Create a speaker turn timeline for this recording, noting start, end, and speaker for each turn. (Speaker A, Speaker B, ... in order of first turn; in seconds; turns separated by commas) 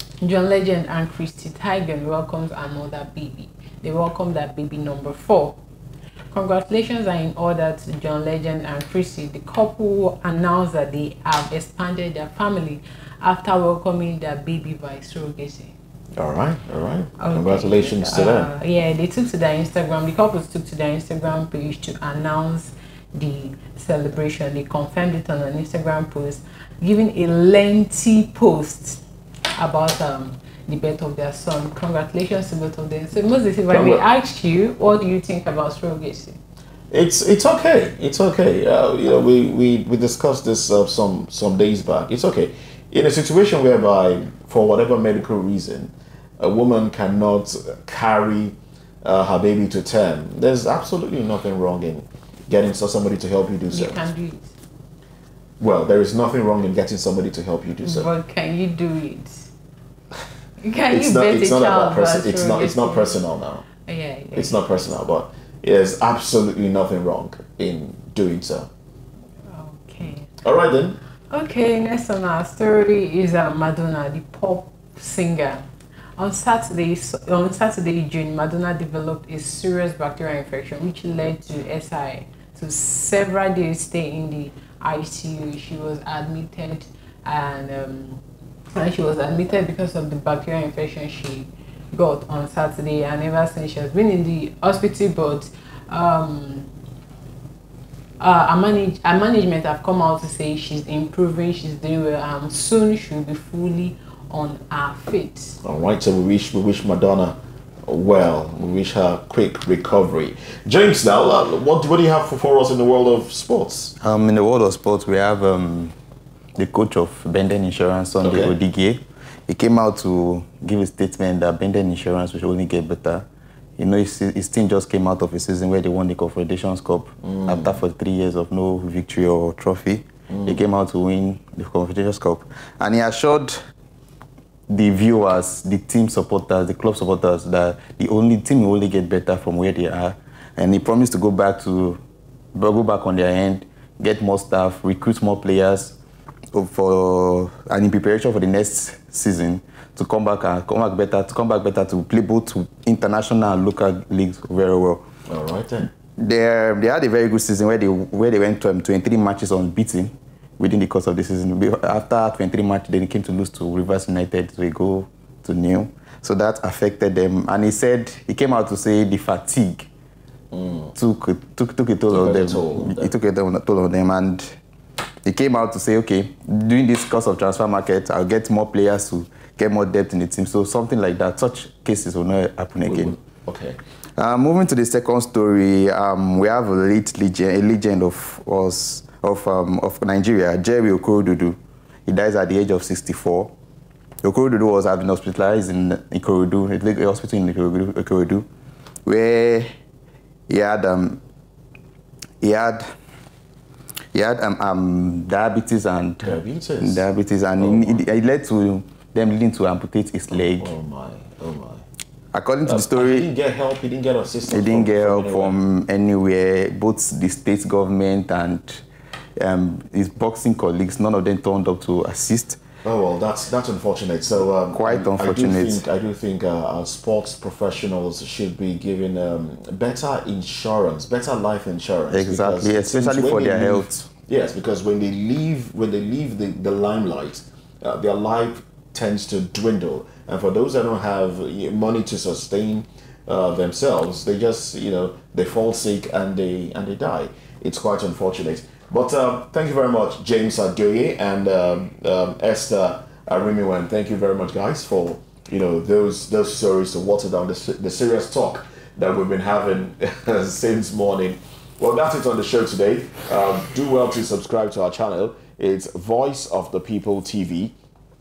Speaker A: 0.2-5.6, Speaker A: 6.3-15.8, Speaker B: 16.2-18.5, Speaker A: 17.2-29.0, Speaker A: 29.6-36.4, Speaker B: 33.7-34.0, Speaker B: 36.9-54.0, Speaker A: 53.7-54.5, Speaker B: 55.6-58.1, Speaker A: 57.8-59.5, Speaker A: 60.6-63.2, Speaker B: 60.9-63.6, Speaker A: 63.8-64.9, Speaker B: 64.3-68.7, Speaker A: 69.4-70.3, Speaker B: 70.4-71.0, Speaker A: 71.3-75.6, Speaker A: 76.2-96.7, Speaker A: 98.2-105.6, Speaker B: 105.6-113.9, Speaker C: 114.0-115.9, Speaker C: 116.5-123.2, Speaker B: 118.2-118.5, Speaker C: 123.8-133.6, Speaker C: 134.7-142.0, Speaker C: 142.5-146.0, Speaker C: 146.5-155.0, Speaker B: 155.3-155.9, Speaker C: 156.2-169.9, Speaker B: 170.5-170.9, Speaker C: 170.9-174.6, Speaker B: 172.1-173.1, Speaker C: 175.2-183.2, Speaker B: 182.8-183.8, Speaker C: 184.2-193.5, Speaker C: 194.2-198.4, Speaker C: 199.0-199.7, Speaker C: 200.5-201.2, Speaker C: 202.4-202.8, Speaker C: 204.1-210.7, Speaker B: 206.2-207.1, Speaker B: 207.6-208.0, Speaker B: 210.3-211.8, Speaker C: 212.3-213.3, Speaker B: 212.6-215.6, Speaker C: 214.5-218.8, Speaker C: 219.4-222.6, Speaker B: 222.8-267.7, Speaker C: 224.7-225.8, Speaker C: 232.1-234.1